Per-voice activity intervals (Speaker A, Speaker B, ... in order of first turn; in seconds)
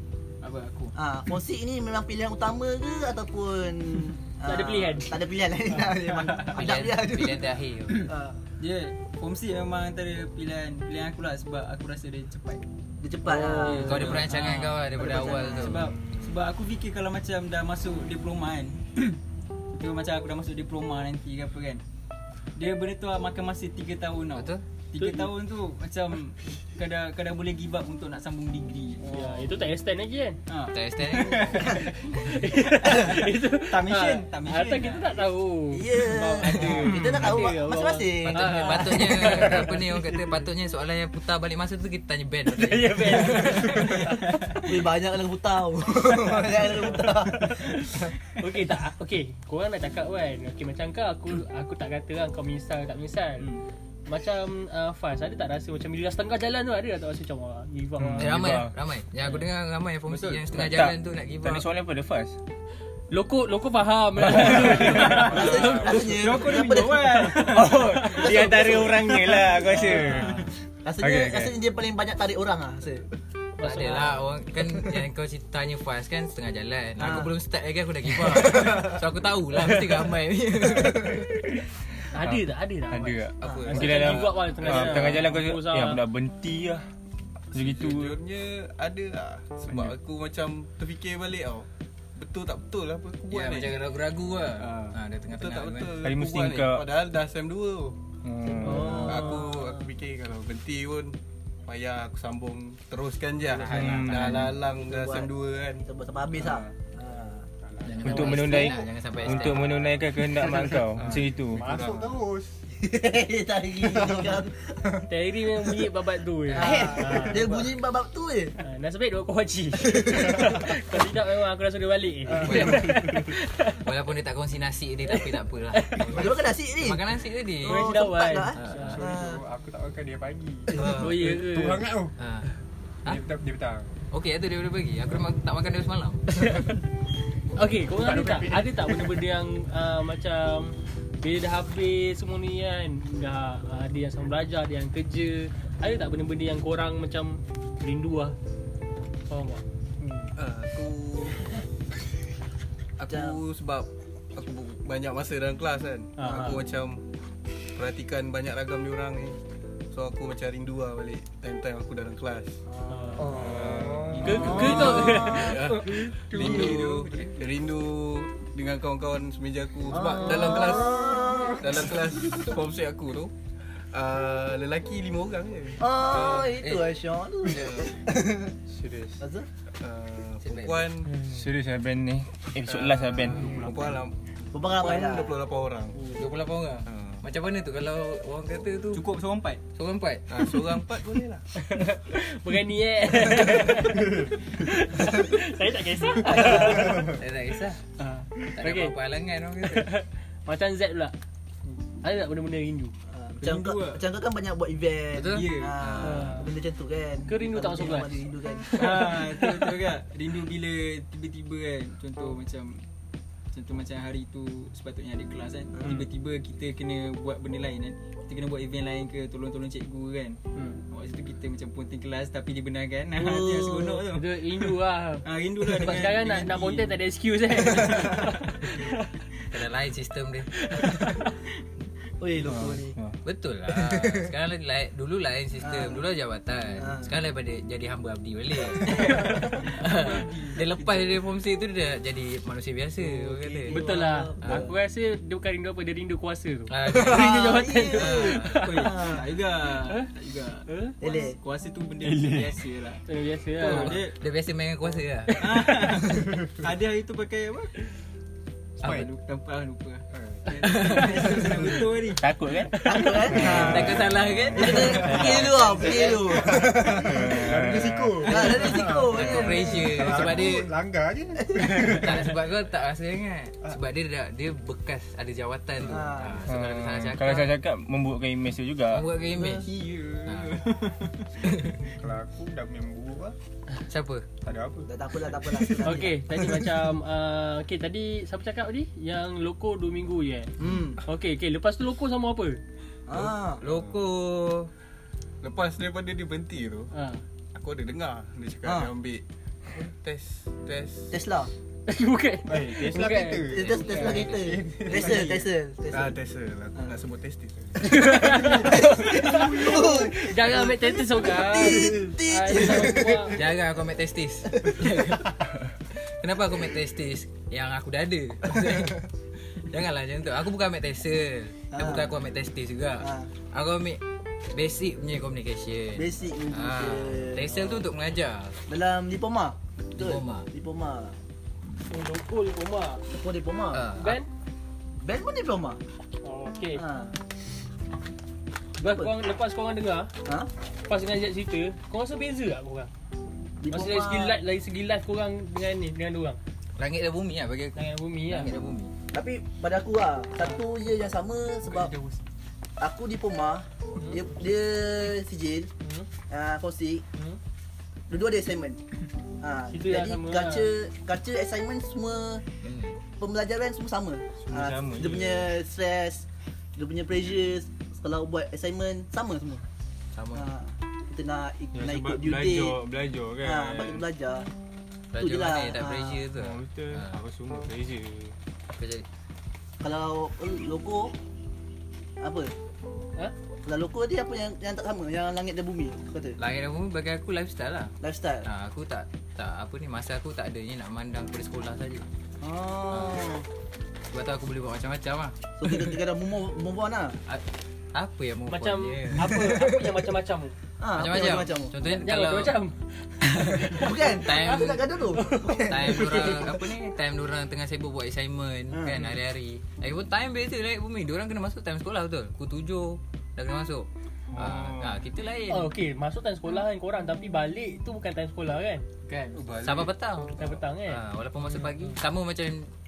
Speaker A: 0.4-0.9, 5.8-6.5, 8.6-12.6, 13.6-19.2, 19.7-21.8, 22.6-29.0, 30.5-35.2, 43.3-44.8, 60.1-60.5, 65.9-67.8, 69.9-70.4, 164.3-164.8, 166.4-166.8, 188.9-189.6, 198.0-198.3, 203.4-204.1, 205.3-205.9, 208.7-212.8, 213.5-224.7, 225.2-227.0, 227.6-228.3, 238.8-241.2, 248.5-253.0, 253.5-254.2, 255.4-257.8, 258.8-262.2, 279.4-281.4, 351.6-352.2, 419.1-419.5
Speaker B: 0.9-7.5, 8.0-8.4, 13.0-15.8, 29.0-29.6, 35.7-39.6, 44.6-47.7, 65.0-67.5, 68.2-70.0, 70.8-73.0, 77.0-77.3, 83.4-83.9, 98.5-99.8, 104.8-105.3, 105.8-107.5, 112.7-114.8, 116.5-118.5, 119.8-120.5, 126.1-127.0, 127.6-129.4, 130.7-131.0, 153.1-153.4, 156.2-156.6, 162.7-165.6, 166.4-166.7, 169.9-171.8, 175.8-178.6, 179.2-179.5, 184.5-185.4, 196.2-197.1, 203.1-209.0, 223.2-224.0, 232.2-233.0, 233.8-234.3, 235.6-236.1, 236.8-237.1, 243.2-244.7, 246.9-249.2, 251.0-251.4, 262.8-270.4, 271.4-271.9, 275.8-276.5, 279.3-279.6, 284.9-286.4, 290.6-291.0, 293.1-293.6, 298.6-298.9, 301.1-301.5, 303.5-306.2, 308.0-313.3, 314.5-314.9, 321.7-322.1, 323.0-323.3, 325.9-327.8, 328.7-331.2, 333.1-333.9, 335.0-335.8, 336.7-337.1, 338.8-339.1, 340.2-340.5, 343.6-344.4, 349.1-351.9, 352.8-355.7, 356.3-357.0, 358.1-358.8, 359.4-362.4, 363.2-369.6, 370.3-372.8, 373.4-374.5, 375.2-376.3, 379.8-381.1, 382.2-382.5, 383.6-386.4, 388.0-388.5, 392.4-393.4, 395.6-397.2, 400.8-401.7, 403.7-406.6, 408.7-409.0
Speaker C: 4.4-5.2, 13.2-14.3, 25.0-25.3, 29.1-30.4, 32.1-39.9, 42.5-44.2, 46.7-53.5, 54.1-58.5, 63.1-66.2, 67.8-68.8, 69.8-70.0, 73.6-74.2, 82.1-86.0, 98.6-99.4, 115.1-117.6, 118.6-123.8, 125.1-126.2, 127.6-129.0, 130.9-131.9, 136.4-136.8, 137.6-148.3, 149.3-149.6, 156.2-156.6, 162.9-163.3, 164.2-165.6, 166.4-166.6, 191.5-197.1, 198.5-198.9, 199.6-201.1, 202.0-202.9, 206.0-206.5, 207.3-208.2, 208.7-209.1, 224.1-229.1, 230.5-231.3, 243.7-249.1, 250.7-250.9, 253.1-254.0, 285.8-290.5, 291.0-292.6, 296.9-297.2, 301.9-303.4, 307.8-313.4, 331.8-333.0, 334.0-334.3, 336.2-336.8, 338.8-340.1, 340.9-342.9, 343.7-346.4, 347.7-348.6, 355.8-356.1, 359.7-360.7, 398.5-400.5, 401.8-406.5, 415.5-418.9, 420.3-421.0
Speaker D: 6.5-8.1, 13.8-15.9, 24.3-24.6, 30.7-31.8, 38.2-43.8, 58.1-61.7, 73.6-81.3, 83.4-85.1, 93.3-95.9, 103.5-104.5, 107.8-110.1, 116.5-116.9, 122.4-127.9, 128.5-129.0, 130.7-131.4, 132.2-132.5, 134.1-136.7, 176.5-176.9, 180.4-180.9, 186.2-189.1, 189.7-190.5, 196.4-197.8, 198.5-199.9, 205.1-206.3, 229.5-230.5, 233.2-243.8, 246.7-248.7, 253.6-255.5, 260.6-261.4, 263.3-266.2, 269.1-270.7, 271.7-277.5, 278.9-279.7, 280.2-280.7, 281.4-281.8, 283.9-284.2, 293.6-294.7, 303.5-304.6, 313.3-315.4, 315.9-319.1, 319.6-324.0, 324.5-328.6, 329.9-330.5, 333.7-334.2, 346.8-348.9, 362.6-363.0, 370.1-370.5, 375.1-377.2, 378.7-379.0, 386.4-387.9, 388.4-392.0, 392.9-393.2, 394.1-395.9, 397.3-399.7, 400.9-402.6, 403.5-404.9, 405.7-415.7, 419.6-422.7
Speaker E: 58.0-58.7, 60.5-62.4, 64.2-65.4, 67.5-70.5, 71.0-71.5, 82.2-86.8, 87.5-88.2, 89.7-89.9, 96.0-96.9, 98.2-99.2, 103.6-104.5, 108.0-111.7, 163.4-164.2, 178.7-179.2, 181.2-184.0, 232.4-233.2, 252.0-252.5, 262.2-265.7, 266.9-268.7, 276.5-279.1, 364.4-365.5, 371.7-374.0, 376.3-378.3
Speaker F: 87.5-93.8, 94.5-98.0, 98.9-105.8, 106.4-106.7, 110.9-112.2, 150.3-151.4, 153.0-157.0, 157.7-159.4, 159.9-162.6, 163.3-171.1, 171.6-173.3, 173.9-176.5, 177.5-177.9, 179.8-181.2, 182.6-186.2, 186.8-187.2, 190.3-191.4, 295.4-296.9, 297.5-301.2, 305.9-308.0, 419.3-419.9
Speaker G: 107.6-108.5, 111.5-112.6, 113.8-115.0, 122.3-123.0, 128.8-132.2, 133.0-133.9, 137.9-139.2, 163.2-165.0, 260.1-260.5, 263.4-272.4, 281.9-283.4, 284.4-286.6, 302.5-305.2, 309.3-310.1, 414.4-414.7